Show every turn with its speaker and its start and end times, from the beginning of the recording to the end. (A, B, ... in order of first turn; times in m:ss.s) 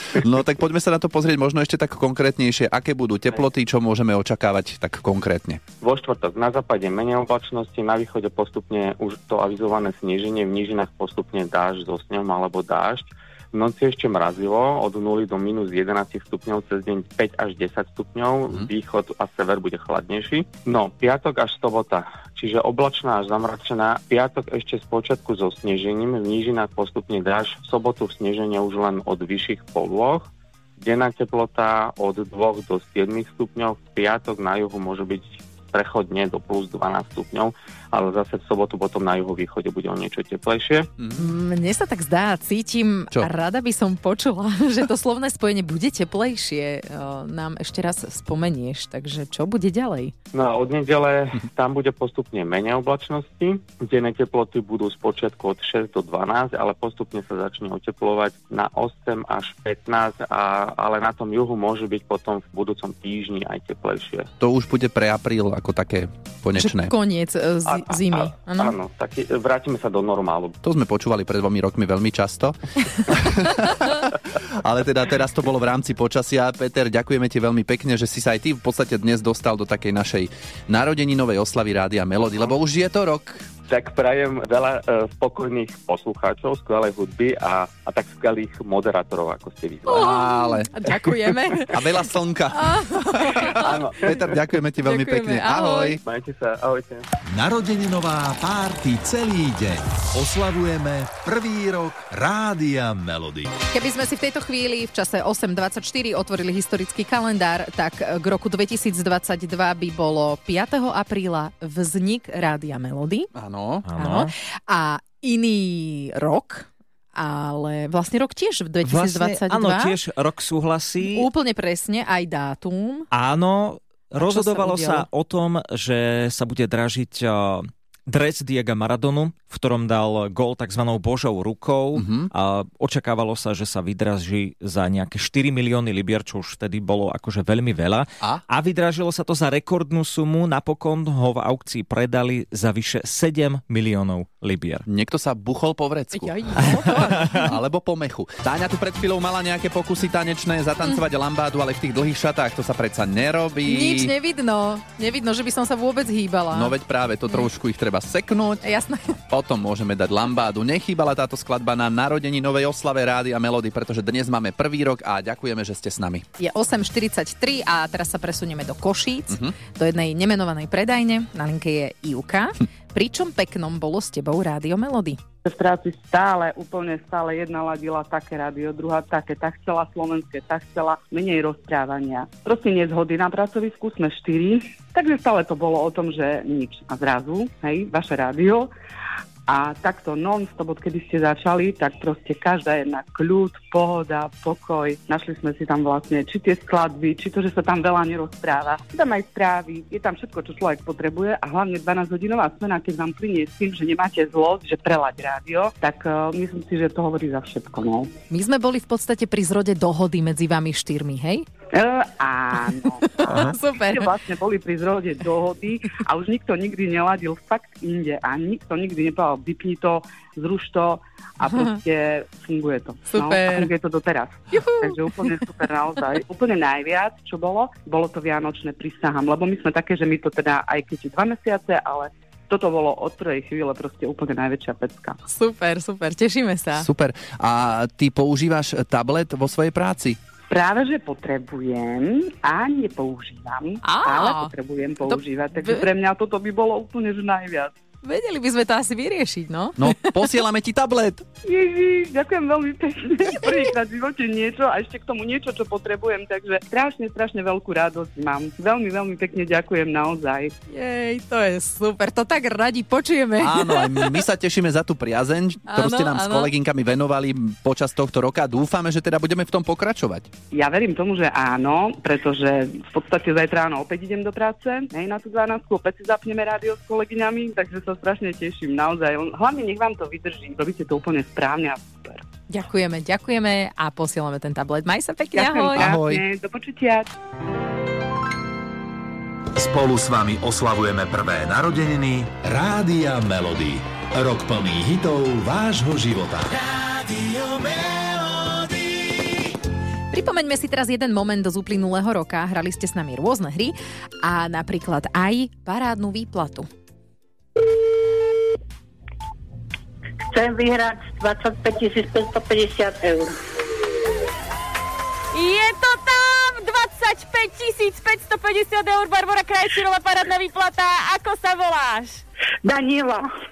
0:00.1-0:05.6 A
0:05.8-0:40.9 B
0:41.0-0:41.3 A
0:41.2-0:50.1 C
0:50.3-1:04.3 B
1:04.4-1:06.9 A
1:06.6-1:08.7 C
1:07.7-1:10.6 B
1:10.6-1:23.4 A
1:23.7-1:30.1 B
1:29.9-1:31.8 C
1:29.9-1:36.0 A
1:32.5-1:33.7 C
1:33.5-1:34.3 B
1:34.8-1:36.0 C
1:36.0-1:37.1 B
1:37.2-1:43.6 D
1:43.7-1:53.3 C
1:53.3-1:53.9 A
1:53.8-1:54.3 E
1:54.0-2:00.0 C
1:58.8-2:01.3 E
2:01.0-2:03.1 C
2:03.1-2:24.8 E
2:04.2-2:05.0 C
2:11.9-2:12.3 A
2:24.8-2:34.1 A
2:26.1-2:27.5 C
2:33.6-2:36.7 C
2:36.5-2:38.6 A
2:38.6-2:39.1 C
2:39.3-2:46.2 A
2:46.4-2:55.2 C
2:55.4-3:08.7 F
3:09.5-3:28.1 F
3:28.3-3:31.4 C
3:31.7-3:55.2 F
3:33.2-3:34.1 C
3:41.4-3:41.8 C
3:43.1-3:43.7 C
3:44.5-3:45.4 C
3:55.3-3:56.9 C
3:56.8-4:00.2 A
4:00.5-4:07.7 F
4:03.8-4:04.5 C
4:05.0-4:05.9 C
4:08.0-4:10.1 C
4:09.8-4:11.2 A
4:11.4-4:20.5 F
4:20.7-4:24.2 C
4:23.4-4:30.3 A
4:25.7-4:26.5 C
4:30.5-4:42.2 F
4:42.5-4:45.9 C
4:45.3-4:47.1 F
4:45.8-4:46.2 A
4:49.6-4:56.6 D
5:00.1-5:06.7 C
5:10.3-5:13.4 G
5:15.3-5:22.2 H
5:22.6-5:23.3 G